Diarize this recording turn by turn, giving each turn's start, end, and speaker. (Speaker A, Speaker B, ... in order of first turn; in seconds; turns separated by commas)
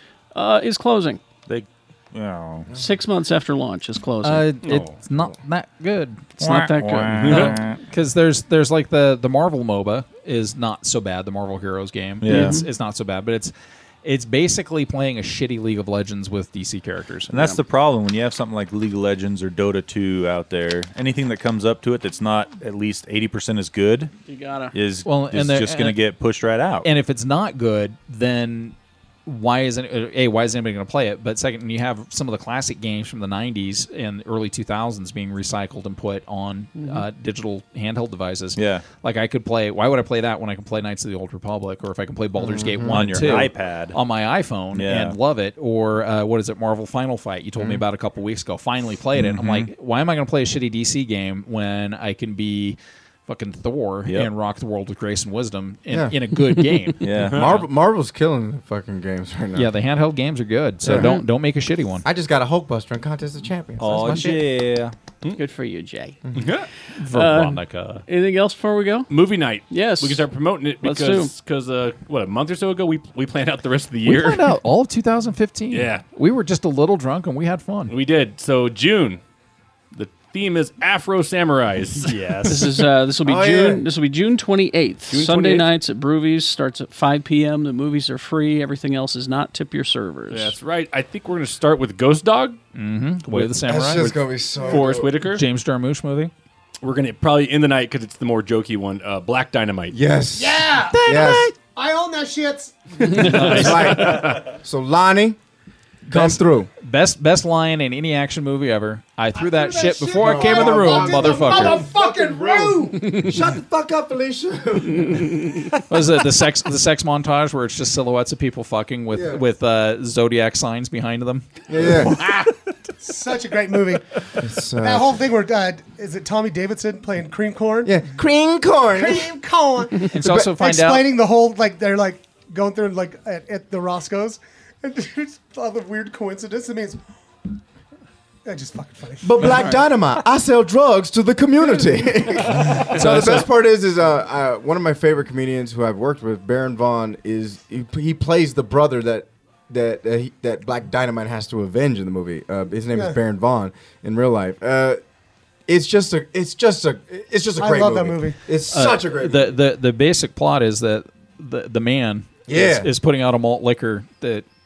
Speaker A: 0.3-1.2, Speaker B: 1.5-2.7, Speaker A: 2.7-4.5, Speaker C: 4.2-13.5, Speaker D: 4.6-5.0, Speaker B: 6.4-7.8, Speaker A: 6.5-7.5, Speaker D: 7.2-7.5, Speaker B: 12.2-12.6, Speaker A: 12.3-12.7, Speaker C: 14.0-17.6, Speaker B: 17.3-24.1, Speaker A: 24.3-24.8, Speaker B: 24.7-26.9, Speaker C: 25.1-26.0, Speaker C: 26.8-57.6, Speaker B: 38.6-38.9, Speaker E: 42.4-43.5, Speaker B: 42.8-44.0, Speaker B: 44.7-45.2, Speaker E: 47.6-47.8, Speaker B: 49.2-49.7, Speaker E: 55.9-56.2, Speaker B: 57.0-57.5, Speaker D: 57.2-57.5, Speaker E: 57.2-59.7, Speaker C: 59.5-62.0, Speaker E: 60.8-61.2, Speaker E: 62.0-64.4, Speaker B: 63.8-65.0, Speaker C: 64.0-64.4, Speaker A: 65.3-66.2, Speaker D: 66.4-66.7, Speaker C: 67.0-68.0, Speaker A: 67.0-69.1, Speaker D: 69.1-74.5, Speaker A: 69.7-70.2, Speaker A: 70.8-71.3, Speaker C: 74.1-77.9, Speaker D: 75.7-76.0, Speaker D: 77.9-79.2, Speaker D: 79.9-82.5, Speaker B: 82.1-82.7, Speaker A: 82.5-90.5, Speaker E: 83.2-83.8, Speaker D: 85.1-85.7, Speaker D: 90.3-92.6, Speaker C: 92.8-94.2, Speaker E: 93.6-95.1, Speaker D: 94.0-95.4, Speaker F: 94.6-95.0, Speaker C: 95.2-96.3, Speaker D: 96.8-100.0, Speaker E: 99.9-101.5, Speaker F: 100.4-103.6, Speaker C: 100.9-101.5, Speaker E: 103.1-105.4, Speaker C: 103.2-104.0, Speaker D: 103.3-104.5, Speaker E: 106.1-106.7, Speaker C: 106.1-111.9, Speaker F: 109.4-113.2, Speaker E: 110.2-115.8, Speaker C: 115.9-122.5, Speaker E: 119.1-119.4, Speaker E: 121.7-122.3, Speaker F: 123.0-124.2, Speaker E: 124.4-125.2, Speaker F: 124.8-128.0, Speaker E: 127.8-129.3, Speaker F: 128.9-137.0, Speaker E: 130.0-130.5, Speaker C: 130.1-131.1, Speaker F: 138.5-139.6, Speaker E: 139.2-155.0, Speaker D: 142.8-143.5, Speaker E: 155.7-159.5, Speaker F: 157.6-158.4, Speaker C: 158.7-164.5, Speaker E: 162.5-162.9